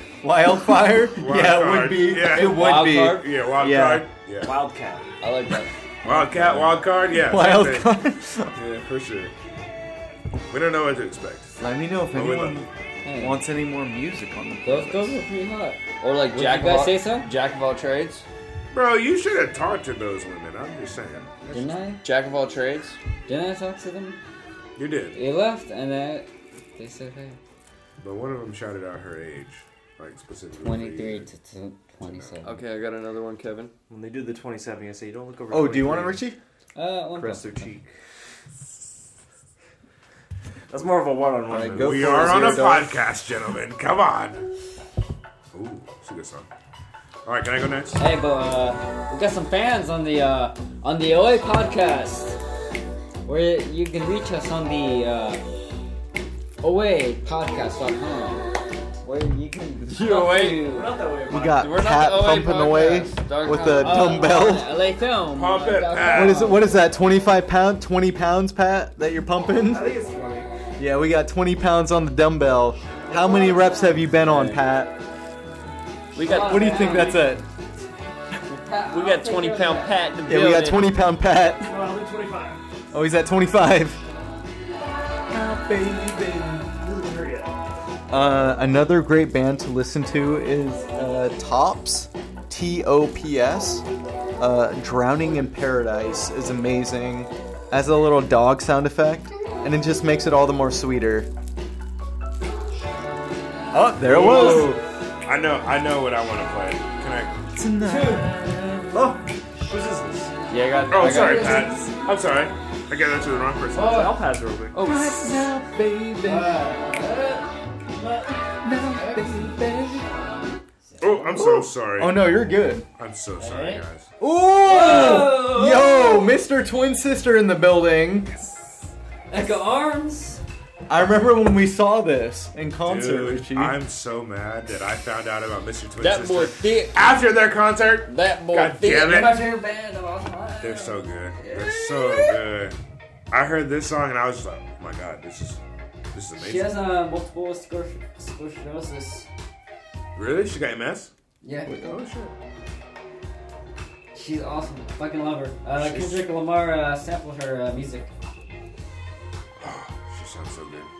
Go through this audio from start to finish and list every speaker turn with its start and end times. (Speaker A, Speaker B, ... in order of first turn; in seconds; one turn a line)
Speaker A: 0.2-4.1
Speaker B: 1.1-4.6
Speaker C: 2.4-3.3
Speaker D: 4.4-5.1
Speaker C: 5.2-6.8
Speaker B: 6.0-9.3
Speaker A: 7.1-8.6
Speaker B: 10.5-11.5
Speaker A: 11.6-15.2
Speaker B: 12.1-12.7
Speaker E: 13.0-13.4
Speaker E: 14.6-17.3
Speaker C: 16.0-18.2
Speaker B: 18.7-21.7
Speaker E: 21.5-22.0
Speaker C: 22.0-23.0
Speaker E: 23.3-24.2
Speaker B: 24.8-25.2
Speaker E: 25.1-27.4
Speaker B: 28.0-31.3
Speaker E: 30.6-32.6
Speaker B: 32.0-32.3
Speaker C: 32.4-33.7
Speaker D: 33.9-36.2
Speaker A: 35.5-36.4
Speaker E: 36.8-37.7
Speaker D: 37.1-37.9
Speaker D: 40.7-42.6
Speaker A: 41.5-43.0
Speaker B: 41.8-44.4
Speaker B: 45.5-46.5
Speaker B: 47.2-48.0
Speaker E: 48.0-52.4
Speaker E: 53.2-55.6
Speaker E: 56.6-58.5
Speaker E: 59.0-61.0
Speaker C: 59.9-60.7
Speaker D: 60.0-61.7
Speaker A: 61.3-64.7
Speaker C: 61.5-64.4
Speaker E: 63.5-66.7
Speaker B: 65.3-66.6
Speaker A: 66.1-69.9
Speaker D: 69.6-70.5
Speaker A: 70.8-75.0
Speaker D: 73.5-74.0
Speaker C: 74.1-74.7
Speaker C: 76.1-77.2
Speaker E: 76.2-77.4
Speaker A: 76.2-77.5
Speaker E: 78.5-80.1
Speaker C: 78.9-81.0
Speaker A: 80.3-81.8
Speaker D: 81.6-82.6
Speaker A: 82.9-84.0
Speaker A: 85.3-86.7
Speaker D: 86.8-87.5
Speaker A: 88.1-93.8
Speaker A: 94.4-101.3
Speaker A: 103.7-104.8
Speaker B: 104.0-107.4
Speaker A: 107.5-109.2
Speaker D: 108.9-110.3
Speaker C: 110.5-111.8
Speaker B: 110.9-114.2
Speaker A: 111.1-111.8
Speaker D: 113.8-114.9
Speaker A: 114.8-116.7
Speaker E: 116.2-117.5
Speaker A: 118.5-120.1
Speaker E: 118.9-119.6
Speaker E: 120.9-121.3
Speaker B: 121.0-122.3
Speaker A: 121.3-122.8
Speaker B: 123.0-124.1
Speaker E: 123.4-123.8
Speaker A: 124.2-128.3
Speaker E: 124.6-126.4
Speaker E: 129.3-130.4
Speaker A: 130.9-133.8
Speaker B: 132.8-139.5
Speaker C: 136.0-137.0
Speaker C: 138.1-139.3
Speaker E: 138.8-142.3
Speaker B: 140.6-142.8
Speaker B: 143.3-145.6
Speaker B: 146.1-146.8
Speaker E: 146.4-149.3
Speaker B: 150.2-151.1
Speaker E: 151.4-151.8
Speaker A: 151.7-152.0
Speaker B: 151.8-152.3
Speaker E: 154.1-158.1
Speaker B: 155.8-156.3
Speaker B: 159.6-160.9